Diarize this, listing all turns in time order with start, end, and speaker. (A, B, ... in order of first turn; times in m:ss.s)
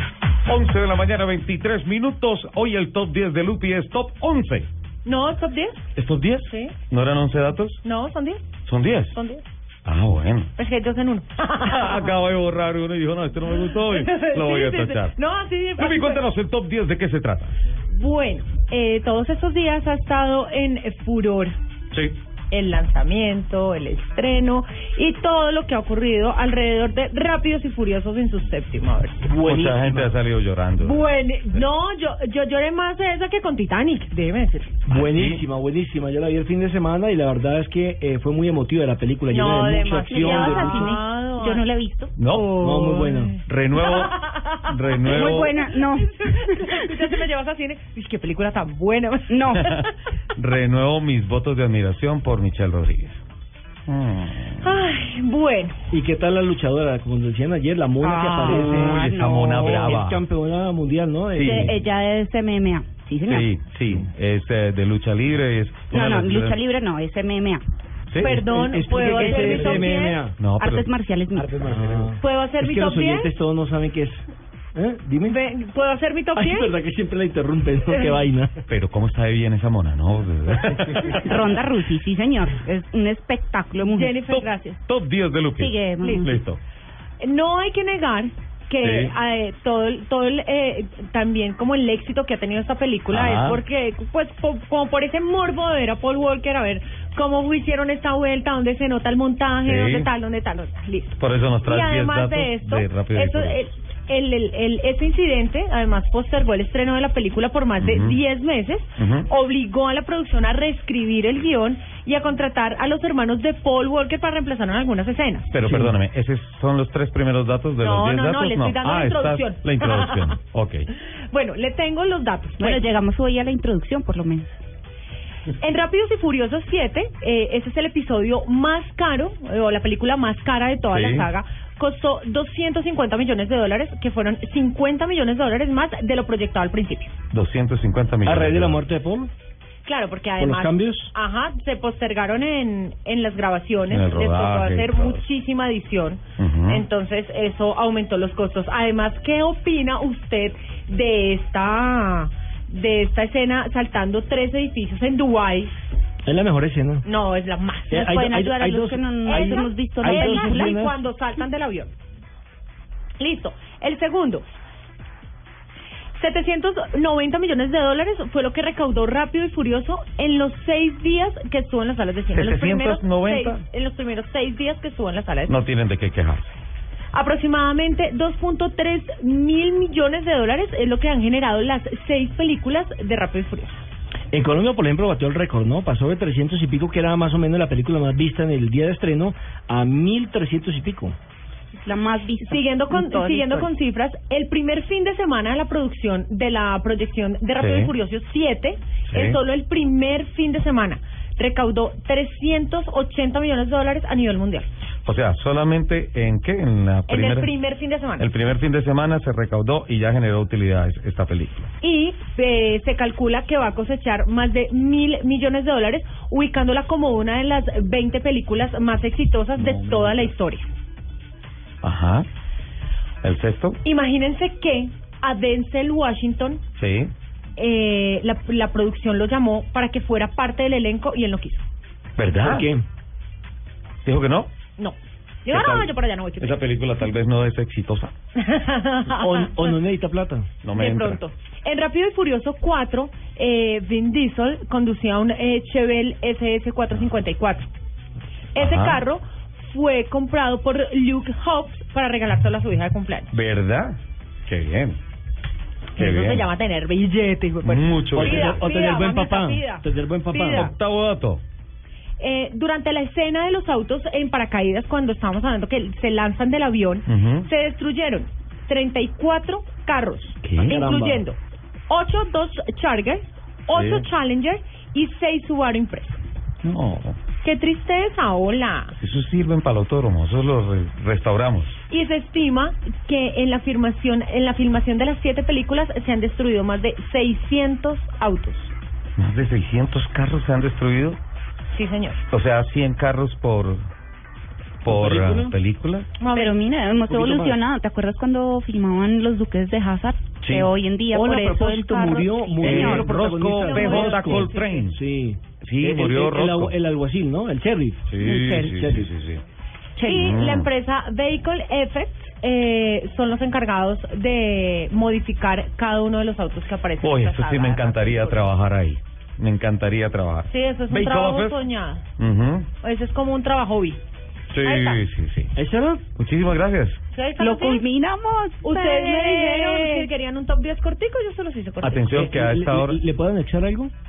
0:00.5-0:04.7 A
0:05.0-0:05.9 B
0:06.0-0:07.8 A
0:06.4-0:06.8 B
0:07.8-0:08.6 B
0:08.6-0:09.2 A
0:09.1-0:09.4 B
0:09.8-0:10.5 A
0:10.6-0:12.0 B
0:11.6-0:15.2 A
0:13.7-0:16.3 B
0:15.8-0:17.6 A
0:17.9-0:21.6 B
0:22.5-0:29.3 B
0:29.2-0:30.2 C
0:29.4-0:31.6 A
0:30.8-0:34.7 B
0:34.9-0:41.0 C
0:34.9-0:35.4 A
0:39.3-0:41.6 B
0:40.1-0:42.1 D
0:42.2-0:42.6 A
0:42.3-0:49.9 B
0:42.6-0:43.4 C
0:43.5-0:45.6 A
0:45.1-0:46.9 D
0:49.3-0:49.7 D
0:49.6-0:49.8 A
0:50.4-0:53.2 A
0:53.9-0:54.7 A
0:54.6-0:55.8 B
0:55.9-1:01.8 C
0:58.0-0:58.8 B
0:58.3-1:00.0 D
0:58.4-1:00.2 A
1:01.4-1:01.7 A
1:01.4-1:03.5 D
1:03.3-1:06.6 A
1:05.9-1:07.6 D
1:08.1-1:08.4 A
1:08.2-1:10.3 B
1:08.3-1:10.4 C
1:08.5-1:11.6 D
1:10.4-1:10.9 A
1:11.4-1:14.2 C
1:11.6-1:12.1 A
1:12.2-1:13.3 B
1:14.8-1:15.4 C
1:15.2-1:16.7 B
1:16.4-1:18.6 C
1:17.9-1:18.2 B
1:18.7-1:21.2 A
1:21.2-1:24.3 D
1:23.9-1:24.8 B
1:24.3-1:26.6 A
1:25.6-1:26.4 D
1:26.0-1:26.4 B
1:27.2-1:55.5 B
1:28.8-1:29.1 A
1:33.1-1:33.6 A
1:39.6-1:40.1 A
1:41.2-1:43.6 A
1:47.8-1:48.2 A
1:49.0-1:49.3 A
1:55.5-2:00.9 A
1:55.7-1:56.0 C
1:57.8-2:00.4 B
2:01.3-2:02.8 B
2:02.6-2:04.6 D
2:05.6-2:17.2 B
2:10.9-2:11.3 A
2:17.3-2:18.8 A
2:18.2-2:19.3 C
2:19.8-2:35.8 B
2:20.4-2:21.1 C
2:23.9-2:25.2 A
2:26.4-2:26.8 A
2:36.3-2:37.1 C
2:37.0-2:38.2 B
2:37.9-2:41.0 C
2:37.9-2:40.8 D
2:39.3-2:41.9 B
2:43.2-2:44.5 B
2:46.2-2:55.6 B
2:52.3-2:53.6 A
2:55.5-2:56.5 A
2:57.1-3:03.8 B
3:04.3-3:11.2 C
3:11.7-3:13.7 D
3:12.4-3:24.7 B
3:17.6-3:17.9 A
3:19.1-3:19.4 A
3:25.1-3:27.5 A
3:27.1-3:28.3 B
3:28.2-3:31.7 A
3:31.8-3:40.7 B
3:39.6-3:40.3 A
3:41.8-3:42.3 A
3:43.2-3:43.8 A
3:43.8-3:46.6 B
3:46.8-3:47.1 A
3:47.6-3:51.6 B
3:52.2-3:52.7 A
3:52.4-3:52.8 C
3:54.0-3:54.5 A
3:54.8-3:56.7 B
3:55.5-3:58.1 A
3:58.4-3:59.8 B
3:59.1-4:00.5 C
4:00.6-4:01.2 A
4:00.7-4:07.7 B
4:08.5-4:13.3 B
4:08.6-4:09.0 A
4:13.3-4:15.0 A
4:16.0-4:16.5 A
4:16.0-4:20.7 B
4:17.6-4:18.6 A
4:18.2-4:20.7 C
4:20.4-4:21.4 A
4:22.2-4:36.2 B
4:27.1-4:27.5 A
4:30.4-4:30.8 A
4:30.6-4:31.2 C
4:33.7-4:34.1 A
4:36.6-4:37.2 A
4:37.4-4:39.0 B
4:39.0-4:41.8 A
4:41.9-4:48.7 B
4:49.2-4:51.2 A
4:51.7-4:52.2 B
4:52.3-4:53.8 A
4:54.8-4:56.1 A
4:54.8-4:55.6 C
4:56.2-4:56.6 B
4:56.3-5:03.2 D
4:57.1-4:57.6 C
5:00.4-5:08.1 C
5:02.4-5:04.9 B
5:02.6-5:05.0 A
5:05.6-5:06.8 A
5:08.1-5:09.4 A
5:08.2-5:08.9 D
5:08.7-5:09.1 C
5:10.0-5:10.2 D
5:10.0-5:18.5 B
5:10.2-5:10.7 A
5:17.0-5:21.6 A
5:20.5-5:22.0 B
5:22.2-5:22.7 A
5:22.8-5:24.0 B
5:24.5-5:25.5 A
5:24.6-5:25.0 B
5:25.6-5:26.0 C
5:26.2-5:27.0 A
5:27.1-5:27.8 B
5:27.4-5:30.1 D
5:28.6-5:32.1 B
5:31.8-5:33.0 A
5:32.1-5:33.9 C